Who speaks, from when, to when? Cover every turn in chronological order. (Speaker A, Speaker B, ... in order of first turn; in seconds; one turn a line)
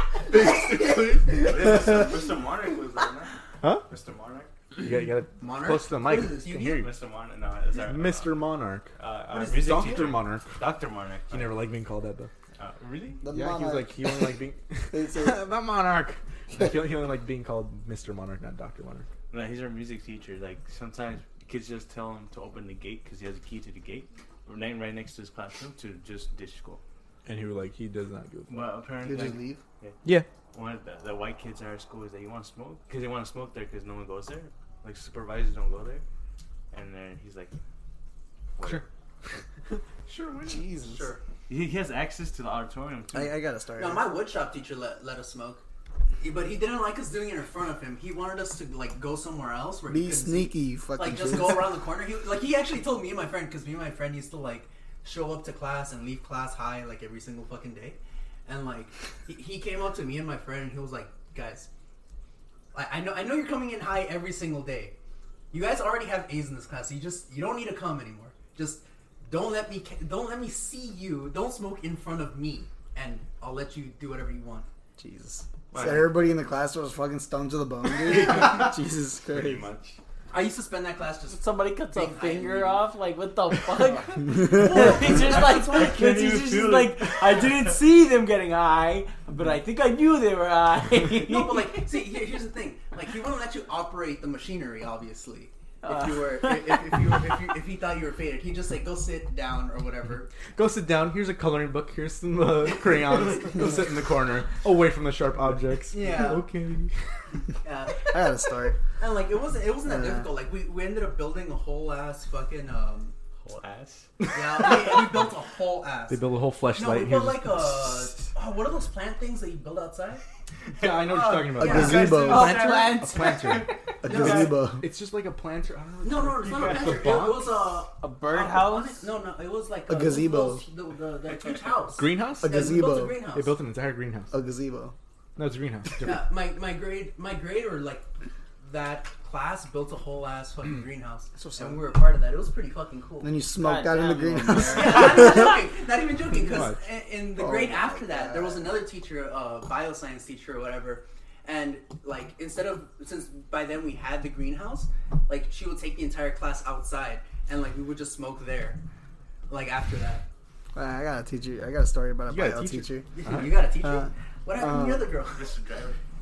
Speaker A: 0.3-1.5
Speaker B: 1.3-4.5
Speaker A: 4.8-6.9
Speaker C: 5.4-6.8
Speaker B: 6.7-8.4
Speaker A: 7.8-10.5
Speaker B: 9.0-11.6
Speaker A: 11.3-12.3
Speaker B: 12.6-13.2
Speaker D: 13.2-14.2
Speaker A: 13.3-19.1
Speaker D: 14.9-15.4
Speaker B: 19.3-26.8
Speaker A: 27.2-28.7
Speaker B: 28.5-30.0
Speaker D: 29.0-29.6
Speaker B: 30.5-36.0
Speaker B: 36.7-37.5
Speaker B: 38.6-39.4
Speaker A: 38.6-38.8
Speaker A: 39.7-40.7
Speaker D: 40.5-41.1
Speaker C: 40.8-41.2
Speaker B: 41.5-43.4
Speaker D: 43.1-44.0
Speaker C: 43.8-45.6
Speaker C: 46.2-61.7
Speaker D: 49.9-51.8
Speaker C: 62.7-64.9
Speaker C: 65.5-74.7
Speaker D: 75.0-79.7
Speaker B: 75.7-76.1
Speaker C: 78.1-78.4
Speaker B: 78.4-78.7
Speaker B: 79.3-80.0
Speaker C: 80.3-82.8
Speaker E: 81.3-91.8
Speaker C: 83.8-86.0
Speaker B: 85.1-87.7
Speaker C: 91.1-100.3
Speaker E: 95.8-97.0
Speaker A: 100.5-106.9
Speaker C: 102.9-103.5
Speaker C: 105.9-106.5
Speaker C: 107.6-108.2
Speaker D: 108.0-108.8
Speaker C: 109.0-113.1
Speaker D: 109.8-110.3
Speaker B: 113.4-114.1
Speaker A: 114.2-115.0
Speaker C: 114.3-120.2
Speaker A: 116.1-117.9
Speaker A: 120.8-127.7
Speaker C: 121.0-123.3
Speaker D: 121.6-122.5
Speaker B: 121.7-124.5
Speaker E: 122.3-123.6
Speaker D: 124.0-124.8
Speaker C: 124.1-124.5
Speaker C: 126.0-133.6
Speaker B: 126.5-127.0
Speaker E: 128.0-129.1
Speaker D: 129.9-130.6
Speaker A: 131.9-134.3
Speaker D: 132.4-133.2
Speaker D: 134.3-134.9
Speaker A: 135.4-136.3
Speaker C: 136.0-138.1
Speaker C: 138.6-143.4
Speaker D: 141.3-141.8
Speaker D: 143.2-145.6
Speaker E: 143.6-145.4
Speaker C: 144.6-158.8
Speaker A: 146.3-146.8
Speaker D: 147.3-148.7
Speaker C: 159.5-160.2
Speaker D: 160.7-163.1
Speaker A: 162.3-163.6
Speaker C: 163.1-165.5
Speaker D: 163.8-165.1
Speaker B: 165.3-166.0